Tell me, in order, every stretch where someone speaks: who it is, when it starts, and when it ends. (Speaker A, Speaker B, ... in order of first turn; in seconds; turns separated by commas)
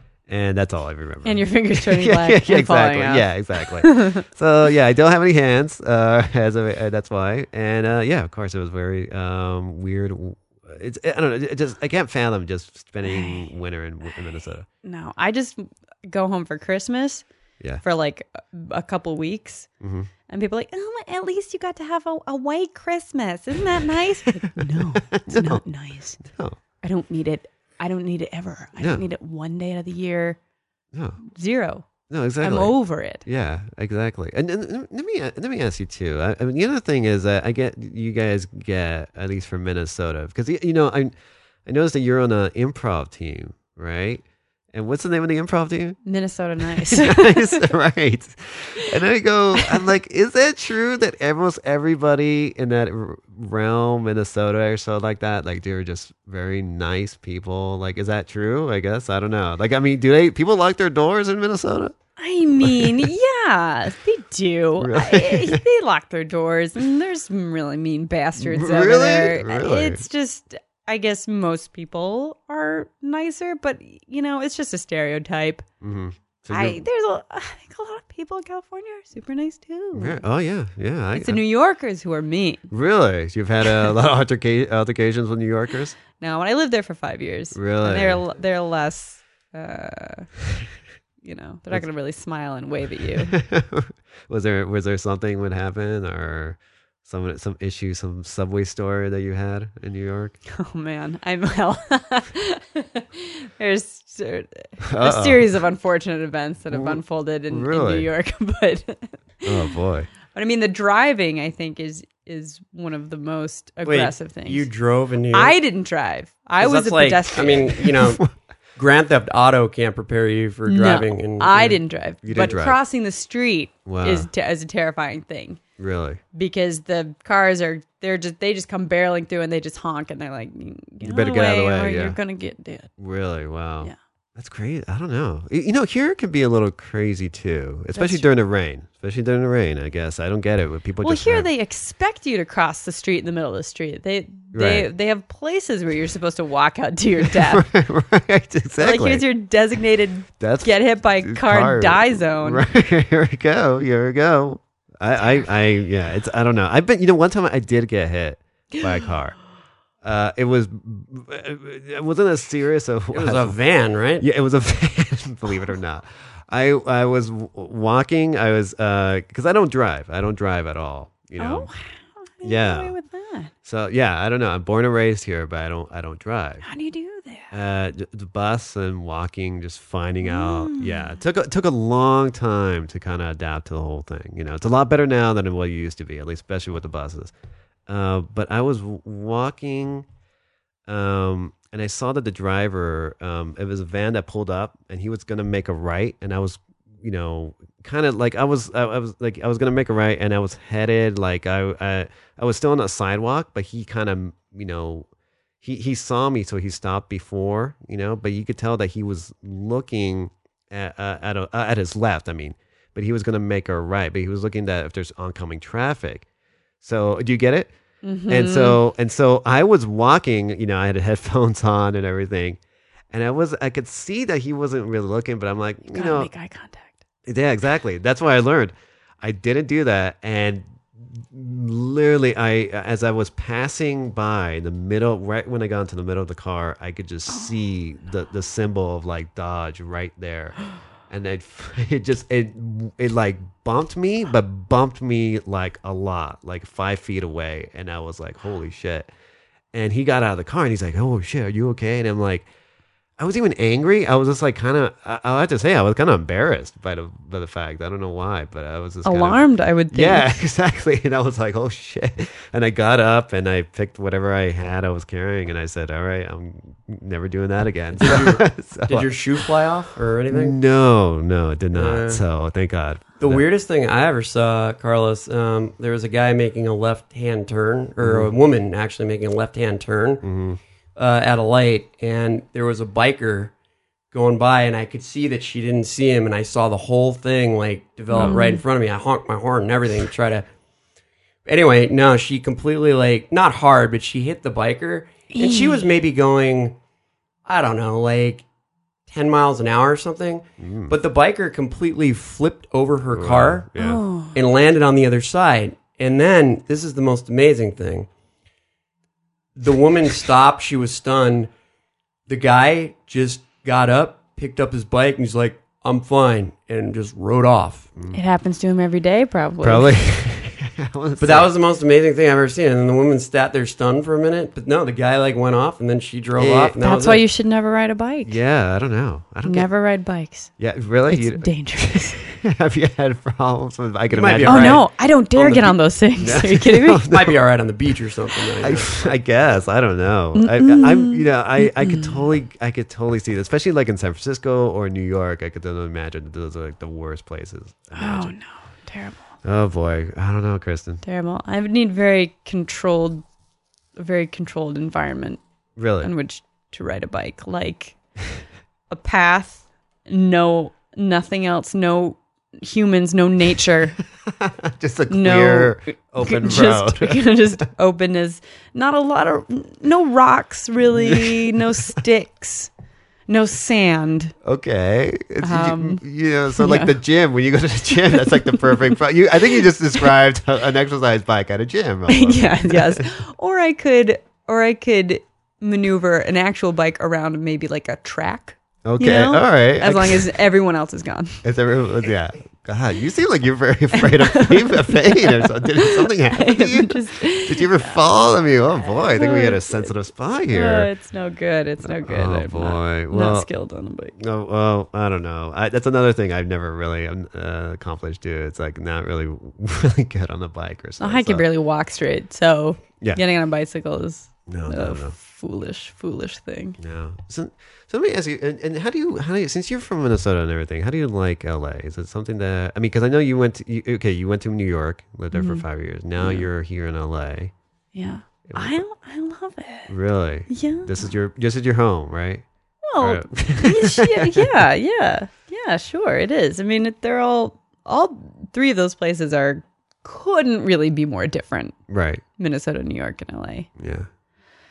Speaker A: 0.3-14.7, Speaker B: 1.2-4.2, Speaker B: 13.0-13.5, Speaker B: 14.8-17.2, Speaker B: 17.8-19.7, Speaker A: 19.8-20.1, Speaker B: 20.3-26.2, Speaker A: 24.4-25.6, Speaker A: 26.2-26.6, Speaker B: 26.8-30.4, Speaker A: 28.8-29.0, Speaker A: 30.9-31.2, Speaker B: 31.3-31.9, Speaker A: 32.1-41.1, Speaker B: 32.4-33.2, Speaker A: 41.6-46.0, Speaker B: 46.0-47.6, Speaker A: 46.6-61.9, Speaker B: 62.2-75.7, Speaker A: 62.6-63.1, Speaker A: 64.8-65.6, Speaker A: 68.4-70.0, Speaker A: 75.8-76.8, Speaker B: 76.5-80.2, Speaker A: 79.9-81.4, Speaker B: 81.2-82.7, Speaker A: 82.7-86.0, Speaker B: 86.2-90.3, Speaker A: 87.5-88.2, Speaker B: 91.2-93.3, Speaker A: 93.2-100.4, Speaker B: 100.5-109.4, Speaker A: 104.8-105.5, Speaker A: 106.7-108.1, Speaker A: 109.4-110.1, Speaker B: 110.3-114.7, Speaker C: 113.8-115.5, Speaker B: 115.3-117.8, Speaker C: 116.6-118.2, Speaker A: 118.0-118.3, Speaker C: 118.8-121.8, Speaker B: 120.7-125.6, Speaker A: 122.2-122.8, Speaker A: 123.8-124.3, Speaker A: 125.8-126.2, Speaker B: 126.3-132.9, Speaker A: 131.0-132.2, Speaker A: 133.0-141.5, Speaker B: 137.9-138.3, Speaker B: 141.0-147.7, Speaker A: 144.5-144.9, Speaker A: 147.2-149.3, Speaker B: 148.8-152.7, Speaker A: 150.4-159.4, Speaker A: 160.0-163.6, Speaker C: 163.1-164.2, Speaker A: 164.2-171.7, Speaker B: 171.4-173.5, Speaker A: 172.4-172.9, Speaker A: 173.6-176.6, Speaker B: 176.6-177.5, Speaker A: 177.5-187.3, Speaker B: 180.2-181.1, Speaker A: 187.9-190.1, Speaker A: 190.8-205.1, Speaker A: 205.6-216.2, Speaker A: 216.8-217.7, Speaker B: 218.0-218.8, Speaker A: 218.3-222.6, Speaker A: 223.1-226.3, Speaker B: 225.9-227.0, Speaker A: 227.2-249.1, Speaker A: 249.7-252.5, Speaker A: 253.2-269.2, Speaker B: 259.0-260.4, Speaker C: 268.0-270.6, Speaker A: 270.3-273.4, Speaker C: 271.7-272.2, Speaker C: 273.2-280.2, Speaker A: 278.0-278.3, Speaker A: 280.2-280.6, Speaker C: 280.9-283.5, Speaker C: 284.1-290.5, Speaker B: 288.1-288.6, Speaker C: 291.4-296.8, Speaker B: 295.3-295.8, Speaker C: 297.4-298.4, Speaker C: 299.1-303.7, Speaker A: 300.6-300.9, Speaker A: 303.1-304.0, Speaker B: 303.8-304.3, Speaker C: 304.3-308.1, Speaker C: 309.6-311.5, Speaker C: 312.3-317.9, Speaker B: 318.1-319.9, Speaker A: 319.6-321.5, Speaker C: 321.2-327.2, Speaker A: 326.4-326.8, Speaker B: 326.8-328.4, Speaker A: 328.2-329.7, Speaker B: 329.4-330.5, Speaker A: 330.6-337.4, Speaker B: 331.1-332.2, Speaker C: 334.1-334.9, Speaker B: 334.4-337.0, Speaker C: 337.1-339.0, Speaker A: 338.6-348.3, Speaker B: 340.3-342.2, Speaker B: 347.9-349.3, Speaker A: 349.4-351.0, Speaker B: 351.0-353.2, Speaker B: 353.9-355.4, Speaker A: 355.8-356.1, Speaker B: 356.0-358.0, Speaker B: 358.9-364.0, Speaker A: 364.2-367.4, Speaker B: 365.1-372.7, Speaker A: 370.9-371.7, Speaker B: 373.3-374.3, Speaker A: 374.4-383.0, Speaker B: 375.4-376.0, Speaker B: 376.5-377.0, Speaker B: 378.1-378.9, Speaker B: 382.1-391.4, Speaker A: 388.8-390.3, Speaker A: 391.4-400.9, Speaker B: 393.9-398.0, Speaker B: 398.7-399.9, Speaker B: 400.5-404.2, Speaker A: 401.8-403.5, Speaker A: 404.2-411.4, Speaker B: 411.0-416.8, Speaker A: 414.5-415.1, Speaker A: 416.8-427.5, Speaker B: 425.3-425.6, Speaker B: 426.2-426.5, Speaker B: 427.9-429.9, Speaker A: 428.5-428.8, Speaker A: 429.9-432.4, Speaker B: 430.5-431.1, Speaker B: 432.8-441.8, Speaker A: 433.0-434.6, Speaker A: 441.9-442.2, Speaker B: 442.4-443.7, Speaker A: 443.8-444.1